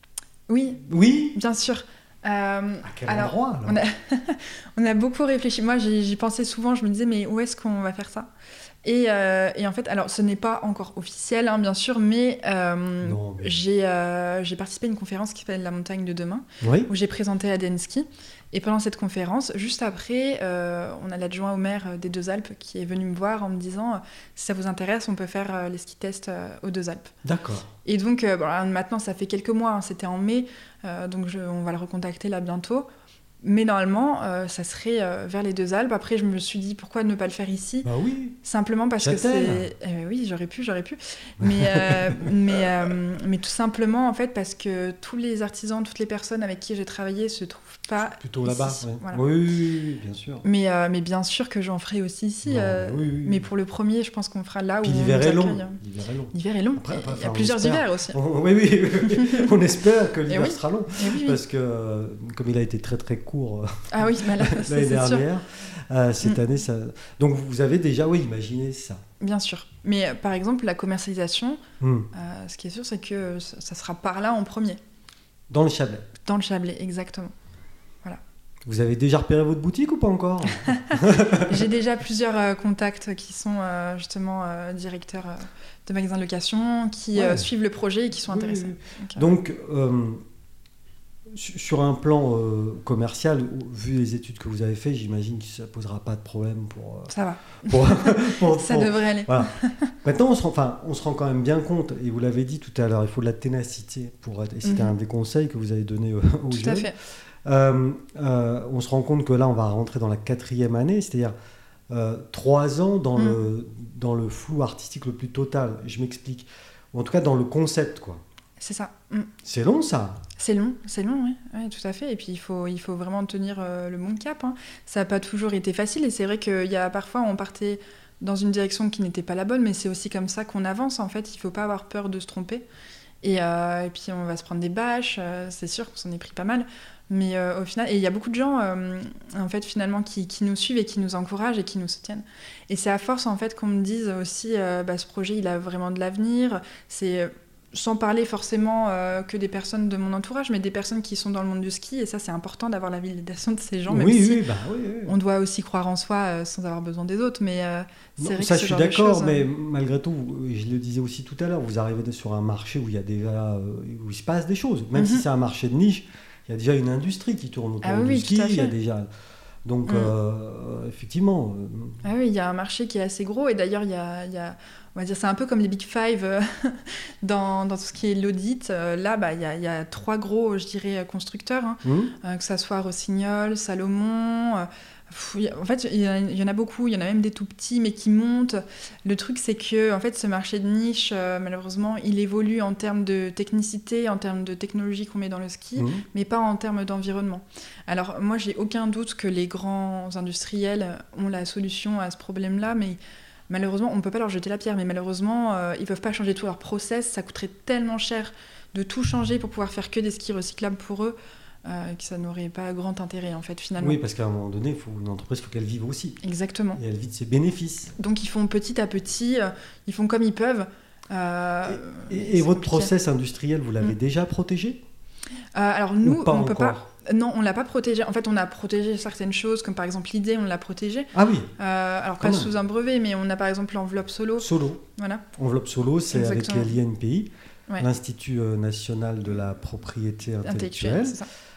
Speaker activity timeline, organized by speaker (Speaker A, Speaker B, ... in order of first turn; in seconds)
Speaker A: 0.5-8.3, 8.8-27.1, 27.9-32.9, 33.4-37.9, 38.4-49.2, 50.4-55.8, 56.3-58.2, 59.1-59.5, 60.3-61.4, 63.9-65.3, 69.2-74.8, 76.2-77.3, 80.7-89.3, 97.1-99.9, 104.7-104.9, 106.5-106.9, 118.6-119.3, 120.4-132.7, 133.2-154.4, 155.1-159.4, 164.9-165.2, 167.8-168.8, 169.9-170.1, 172.0-214.0, 216.2-216.8, 218.0-222.9, 225.6-235.2, 236.1-236.8, 240.4-241.3
Speaker B: 0.9-1.4, 2.8-3.8, 13.0-13.6, 16.6-16.9, 27.2-27.7, 37.8-38.4, 39.0-39.7, 41.4-42.7, 48.2-50.5, 52.5-53.4, 54.8-69.0, 71.8-72.1, 75.5-76.1, 78.7-81.7, 87.2-87.5, 88.3-90.2, 91.3-106.9, 107.5-111.3, 111.9-118.2, 119.4-120.2, 153.9-155.2, 158.2-169.1, 169.7-172.0, 181.8-182.1, 195.8-196.1, 213.8-216.2, 216.8-217.9, 221.7-224.8, 226.0-226.9, 231.1-231.5, 232.2-232.5, 234.4-234.8, 235.4-241.2